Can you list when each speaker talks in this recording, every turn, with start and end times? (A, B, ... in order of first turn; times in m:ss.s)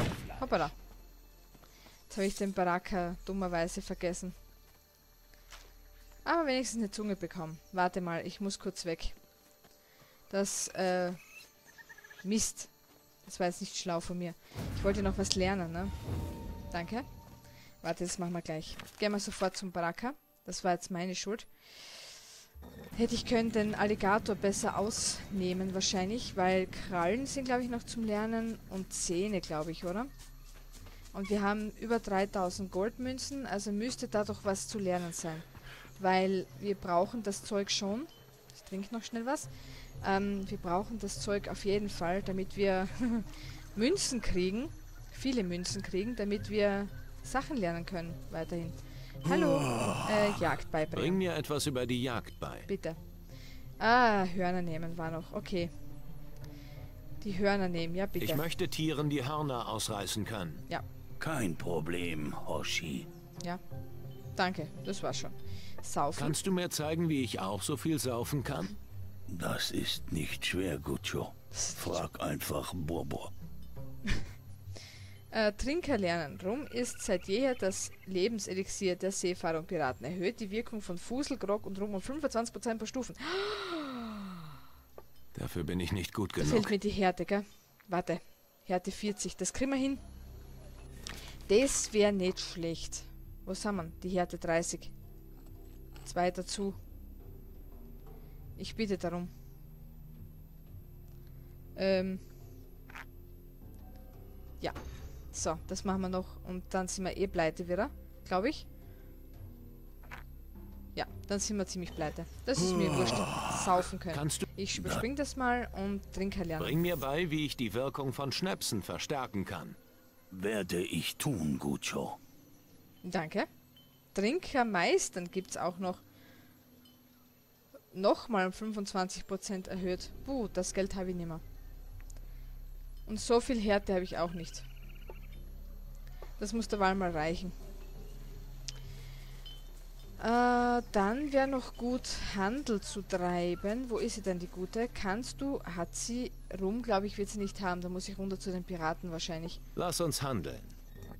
0:00.4-0:00.7 A
0:02.1-0:04.4 A
0:06.2-0:09.2 A
0:10.3-0:11.2 A
0:12.2-0:12.7 A
0:13.2-0:15.9 A
0:16.7-0:17.0 A
0:17.8-0:22.1 A
0:22.9-0:30.1 A
0:31.1-0:35.4 A
0:36.0-0:39.5 A
0:40.0-0:51.2 A
0:49.7-0:50.0 B
0:50.9-0:52.7 C
0:52.7-0:53.0 A
0:53.8-0:55.7 A
0:57.2-0:58.4 A
0:58.2-1:00.6 C
1:01.2-1:03.1 B
1:04.4-1:06.4 A
1:06.2-1:08.8 C
1:09.3-1:13.3 B
1:11.5-1:12.0 A
1:15.3-1:24.4 A
1:25.3-1:26.7 C
1:26.4-1:30.0 A
1:31.5-1:34.9 A
1:36.0-1:36.8 A
1:38.6-1:39.3 A
1:41.8-1:42.2 A
1:45.3-1:48.6 A
1:50.9-1:56.8 A
1:52.7-1:53.5 B
1:54.1-1:54.4 C
1:54.7-1:55.0 B
1:56.6-1:59.8 C
2:00.3-2:02.2 B
2:03.0-2:03.5 A
2:04.1-2:06.0 A
2:07.9-2:11.4 A
2:13.0-2:14.7 A
2:16.4-2:17.6 A
2:20.2-2:29.6 A
2:29.7-2:30.7 C